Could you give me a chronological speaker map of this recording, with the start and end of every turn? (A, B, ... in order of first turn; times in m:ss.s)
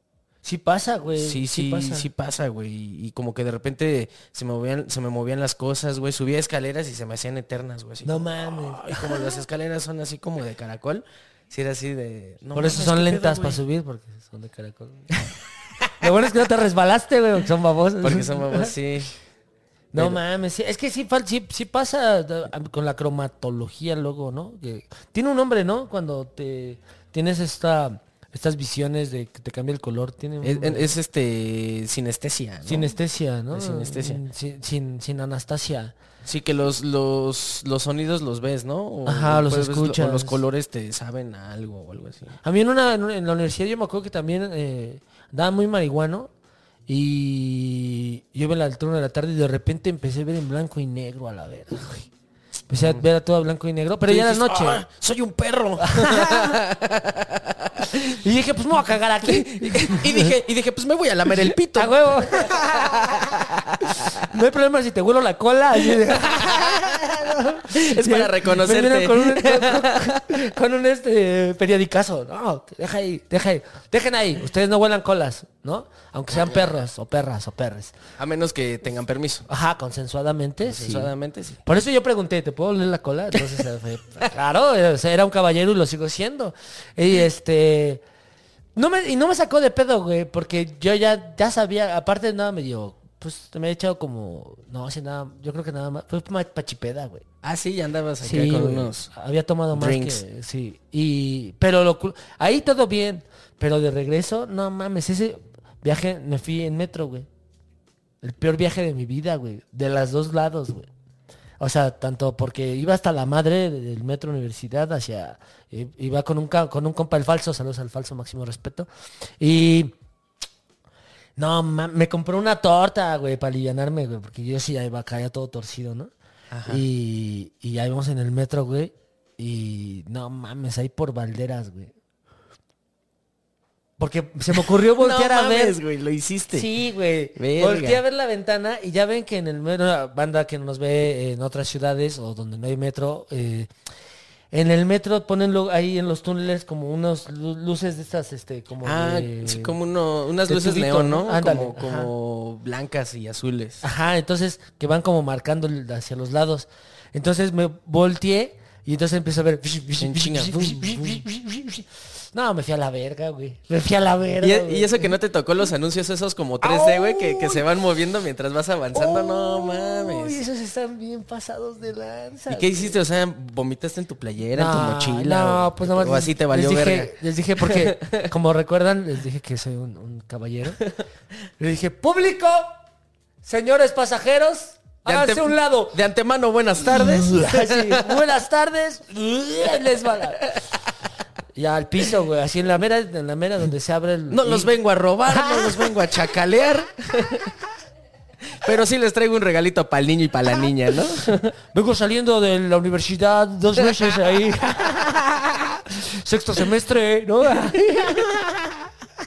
0:00.4-0:02.1 A
0:01.2-0:13.6 B
0:08.0-0:09.4 A
0:12.6-0:15.1 A
0:16.0-0:18.7 A
0:18.0-0:19.1 B
0:19.9-0:30.9 A
0:20.0-0:20.2 B
0:30.4-0:33.0 B
0:32.7-0:36.0 A
0:33.5-0:34.2 B
0:36.2-0:42.4 B
0:39.1-0:40.4 A
0:42.4-0:46.3 A
0:46.9-0:52.1 A
0:52.7-0:54.8 A
0:52.7-0:53.0 B
0:54.0-0:58.2 B
0:55.8-0:56.6 A
0:57.9-1:00.4 A
0:59.2-1:04.2 B
1:01.3-1:03.4 A
1:03.9-1:18.0 A
1:06.0-1:10.2 B
1:18.2-1:19.5 B
1:19.5-1:21.1 A
1:20.6-1:21.6 B
1:21.6-1:28.0 A
1:28.8-1:37.2 A
1:37.4-1:39.1 B
1:38.2-1:47.3 A
1:39.7-1:40.2 B
1:48.2-1:50.9 A
1:51.6-1:58.9 A
1:59.4-2:00.0 A
2:01.4-2:06.1 A
2:06.5-2:06.8 B
2:06.7-2:11.9 A
2:14.0-2:15.8 A
2:14.5-2:16.7 B
2:16.5-2:23.7 A
2:17.4-2:18.0 B
2:24.5-2:29.8 A
2:28.8-2:33.8 B
2:30.5-2:32.1 A
2:33.8-2:45.1 A
2:40.0-2:41.2 B
2:44.4-2:50.4 B
2:46.6-2:47.6 A
2:48.9-2:53.0 A
2:52.5-2:58.3 B
2:54.6-3:00.8 A
3:01.6-3:02.7 A
3:03.4-3:06.0 A
3:05.1-3:08.2 B
3:06.9-3:10.5 A
3:11.6-3:14.7 A
3:14.3-3:17.5 B
3:15.3-3:15.9 A
3:18.5-3:21.5 B
3:21.7-3:28.9 A
3:23.8-3:25.3 B